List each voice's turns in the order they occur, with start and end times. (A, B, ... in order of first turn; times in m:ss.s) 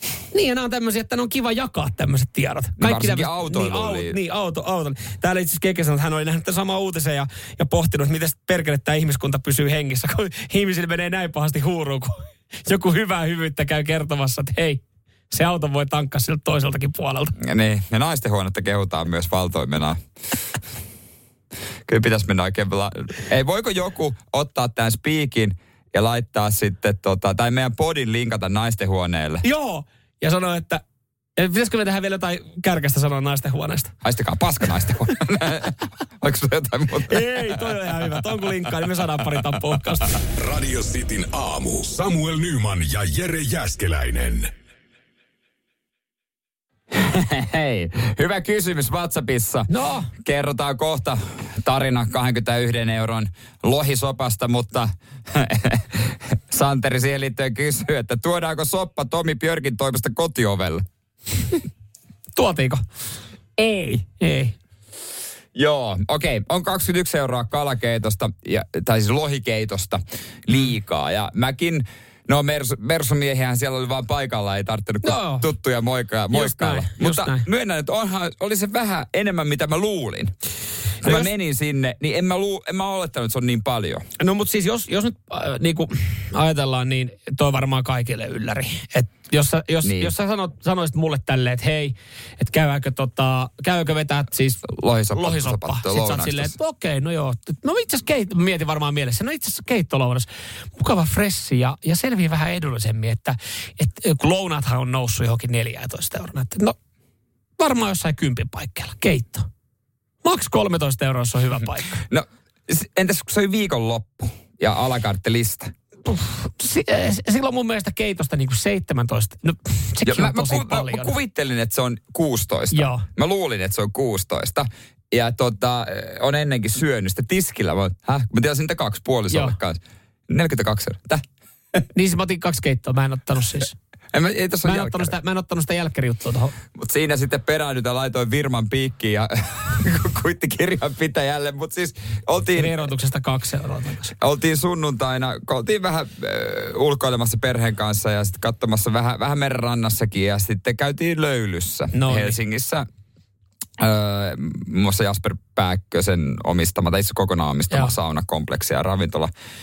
0:00.3-0:17.4 A
0:02.8-0:04.2 B
0:17.4-0:20.0 B
0:21.9-0:29.4 B
0:29.4-0:30.8 A
0:31.4-0:33.9 A
0:34.0-0:38.7 B
0:37.1-0:40.1 A
0:40.3-0:44.5 C
0:46.9-1:00.8 B
0:49.7-0:50.1 A
1:02.4-1:02.8 A
1:03.6-1:04.6 A
1:05.6-1:20.3 B
1:15.0-1:15.5 A
1:16.3-1:17.5 A
1:21.0-1:24.0 B
1:21.0-1:21.3 A
1:24.2-1:46.8 A
1:29.8-1:30.1 B
1:34.6-1:36.6 B
1:47.6-1:49.5 A
1:50.2-1:52.0 A
1:52.0-1:55.7 B
1:56.1-2:01.1 A
2:00.0-2:11.2 B
2:02.7-2:03.1 A
2:09.3-2:09.6 A
2:11.9-2:13.8 A
2:14.1-2:15.2 B
2:14.6-2:16.6 A
2:16.8-2:22.8 B
2:22.6-2:24.1 A
2:24.2-2:32.9 B
2:31.9-2:32.4 A
2:33.8-2:39.3 B